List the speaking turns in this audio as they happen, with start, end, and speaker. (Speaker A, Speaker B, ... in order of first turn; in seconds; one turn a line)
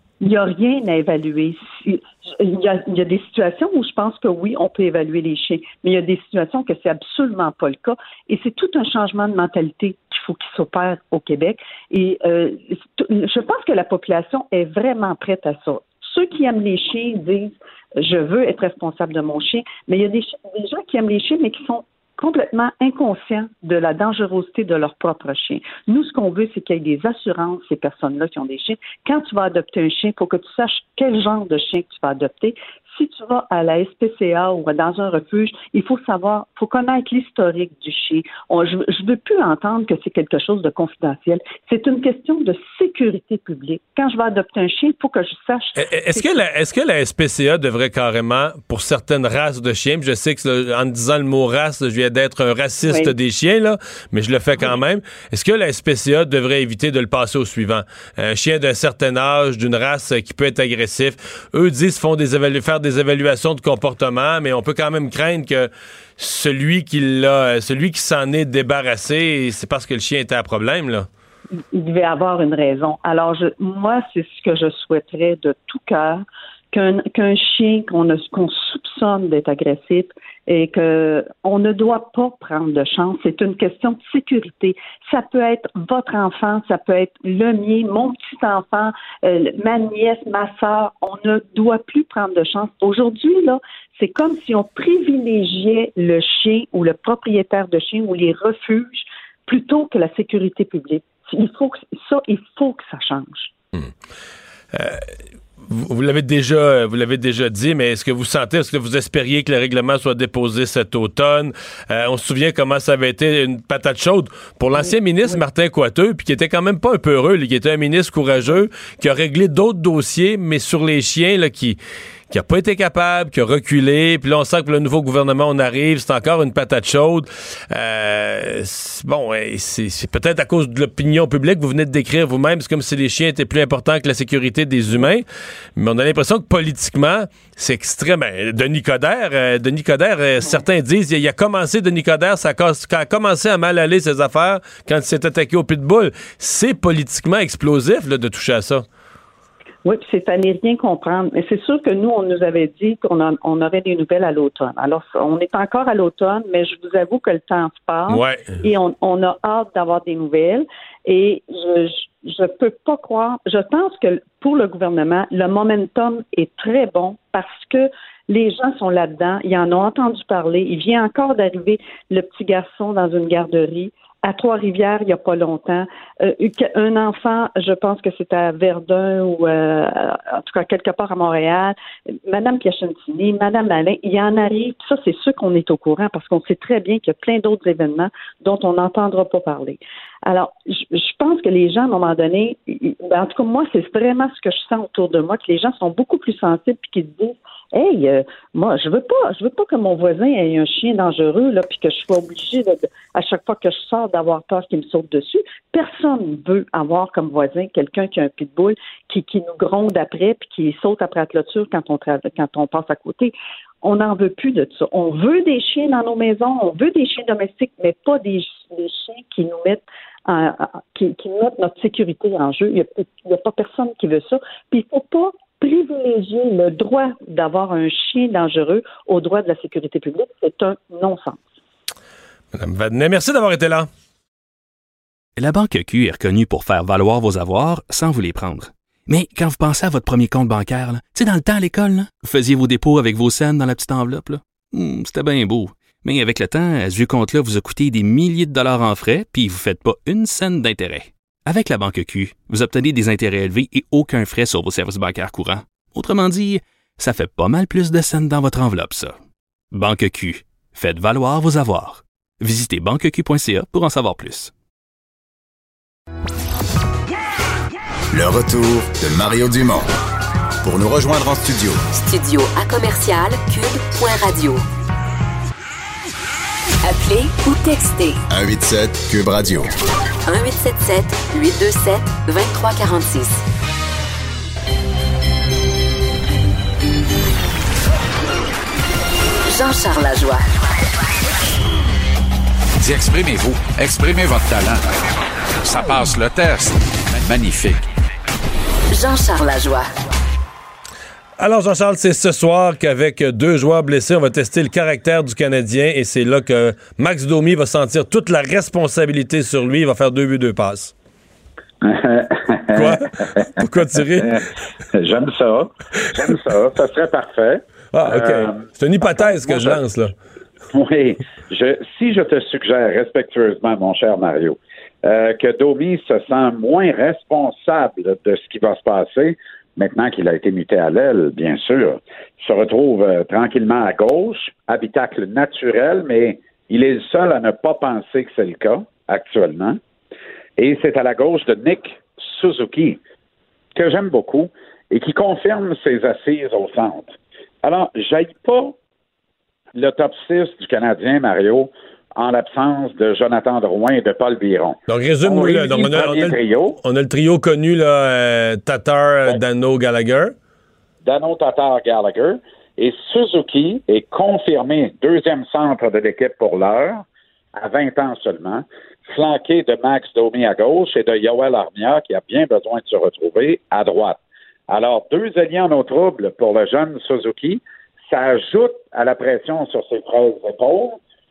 Speaker A: 0.2-46.4
Speaker B: 45.8-71.1
Speaker A: 52.9-53.1
Speaker A: 71.6-103.5
Speaker B: 104.7-105.1
Speaker B: 105.7-121.8
Speaker B: 122.3-148.9
Speaker A: 149.8-181.8
Speaker B: 158.1-158.6
Speaker A: 182.3-231.4
Speaker B: 232.5-233.9
Speaker C: 235.4-259.2
Speaker C: 259.7-264.5
Speaker D: 268.1-269.9
Speaker D: 270.6-271.8
Speaker E: 271.9-274.6
Speaker E: 276.8-278.2
Speaker D: 278.3-279.7
Speaker E: 280.3-283.4
Speaker E: 289.5-290.4
Speaker F: 292.8-295.0
Speaker F: 295.6-297.8
Speaker E: 298.9-299.9
Speaker B: 301.4-310.9
Speaker G: 311.8-313.6
Speaker B: 312.7-314.4
Speaker G: 314.1-319.8
Speaker B: 317.9-320.1
Speaker G: 320.7-339.8
Speaker G: 340.6-343.0
Speaker G: 343.8-348.8
Speaker G: 349.8-356.8
Speaker B: 354.9-360.3
Speaker G: 361.0-367.1
Speaker G: 367.6-381.0